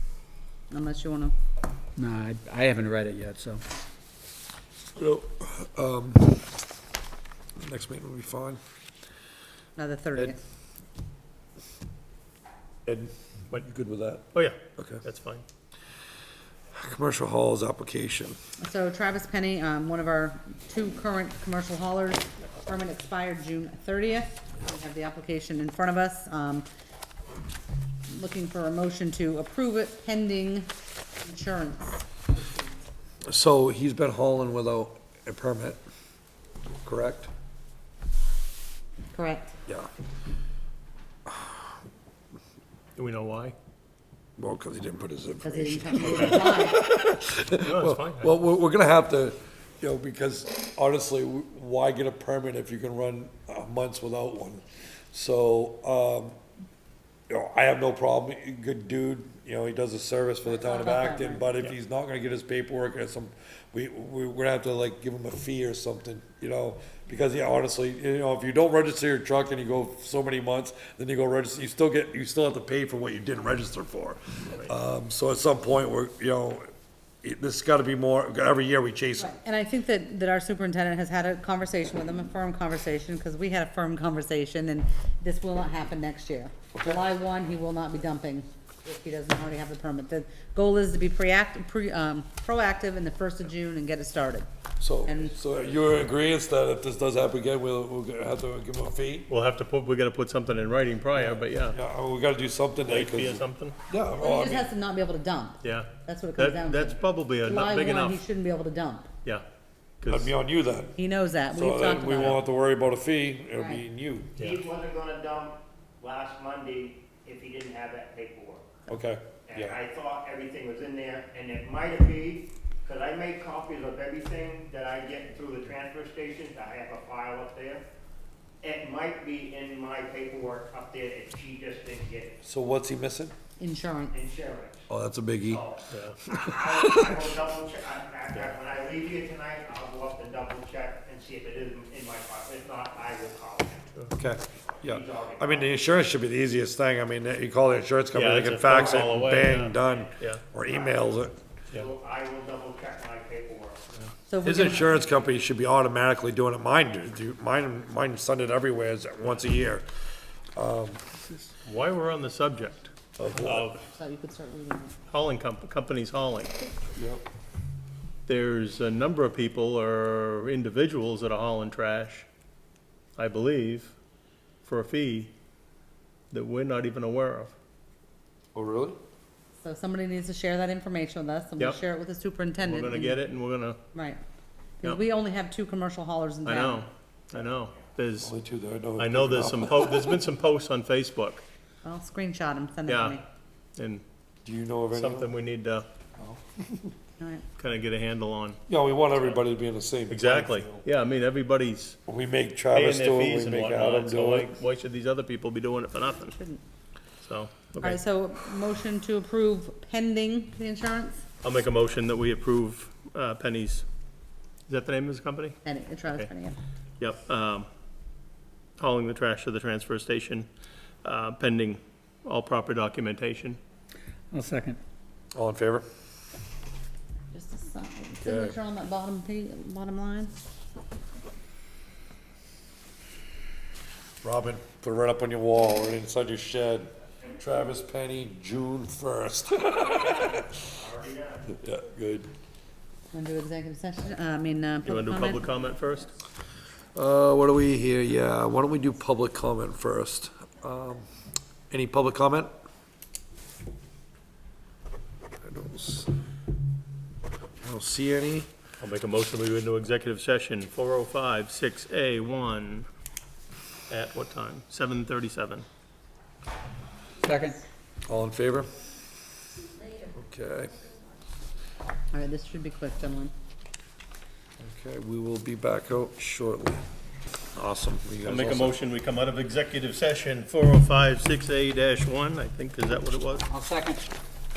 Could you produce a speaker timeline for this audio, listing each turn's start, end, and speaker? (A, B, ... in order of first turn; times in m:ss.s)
0:00.7-0:01.3 A
0:02.0-0:03.6 B
0:05.0-0:06.6 C
0:07.6-0:08.6 C
0:09.8-0:10.4 A
0:12.8-0:15.0 C
0:14.3-0:15.4 D
0:16.8-0:18.4 C
0:18.6-0:26.7 A
0:28.1-0:32.1 A
0:33.3-0:35.8 C
0:36.8-0:37.3 C
0:39.1-0:39.6 A
0:41.3-0:41.7 C
0:43.0-0:43.6 D
0:44.4-0:56.4 C
0:45.4-0:46.8 A
0:47.6-0:48.3 D
0:57.3-1:16.7 C
1:00.5-1:01.4 A
1:17.2-1:19.3 C
1:19.2-1:34.5 A
1:26.7-1:27.0 C
1:34.8-1:39.3 C
1:35.1-1:35.4 A
1:39.3-1:41.8 D
1:41.1-1:44.7 C
1:42.8-1:43.8 D
1:44.2-1:49.1 A
1:45.6-1:48.2 D
1:50.0-1:50.3 D
1:50.1-1:51.0 C
1:51.0-1:52.4 A
1:51.5-1:54.4 C
1:53.6-1:53.8 A
1:54.4-1:54.6 D
1:54.4-1:58.6 E
1:58.9-1:59.8 C
1:59.5-2:07.8 E
2:08.6-2:12.4 E
2:12.4-2:13.3 C
2:13.6-2:14.2 A
2:14.1-2:14.8 E
2:14.9-2:15.7 C
2:15.5-2:23.9 E
2:15.9-2:16.2 D
2:16.3-2:17.3 C
2:24.2-2:31.4 C
2:24.8-2:25.7 E
2:28.1-2:30.4 D
2:29.6-2:30.1 E
2:30.7-2:31.0 E
2:31.7-2:33.8 E
2:34.3-2:35.0 A
2:34.4-2:39.8 C
2:40.5-2:41.0 C
2:41.6-2:43.8 D
2:43.2-2:43.7 C
2:43.9-2:45.0 A
2:45.1-2:46.6 D
2:47.0-2:47.2 C
2:48.3-2:52.3 D
2:53.2-2:54.0 D
2:54.6-2:55.3 D
2:56.3-2:57.6 D
2:58.5-2:59.0 C
2:59.6-3:03.2 A
3:02.6-3:03.8 D
3:03.9-3:04.2 A
3:04.8-3:06.8 A
3:06.4-3:08.3 D
3:08.2-3:10.2 C
3:09.0-3:11.4 D
3:11.8-3:13.2 A
3:12.9-3:13.2 D
3:13.8-3:14.0 D
3:14.4-3:15.3 C
3:14.9-3:15.9 D
3:16.2-3:16.9 C
3:17.2-3:17.4 A
3:17.6-3:18.6 D
3:18.7-3:20.8 C
3:20.1-3:22.0 D
3:22.1-3:24.6 C
3:22.7-3:26.4 D
3:26.3-3:26.6 A
3:27.2-3:28.0 D
3:27.8-3:31.2 A
3:31.4-3:33.8 D
3:34.7-3:35.6 D
3:35.6-3:36.6 A
3:37.0-3:37.7 D
3:38.8-3:40.5 D
3:41.0-3:43.6 D
3:44.3-3:44.8 B
3:45.3-3:45.8 C
3:47.3-3:50.3 A
3:48.2-3:48.6 C
3:54.2-4:00.6 C
4:00.0-4:01.6 E
4:01.5-4:02.3 C
4:03.1-4:05.5 A
4:04.8-4:06.1 D
4:06.9-4:11.1 C
4:11.7-4:12.5 C
4:15.4-4:16.1 C
4:17.6-4:18.5 C
4:18.8-4:22.9 D
4:23.9-4:25.7 D
4:27.2-4:27.6 B
4:28.1-4:28.7 C
4:30.1-4:30.9 C
4:32.1-4:33.3 A
4:34.6-4:36.8 C
4:37.6-4:38.8 C
4:38.2-4:43.5 D
4:43.5-4:44.1 B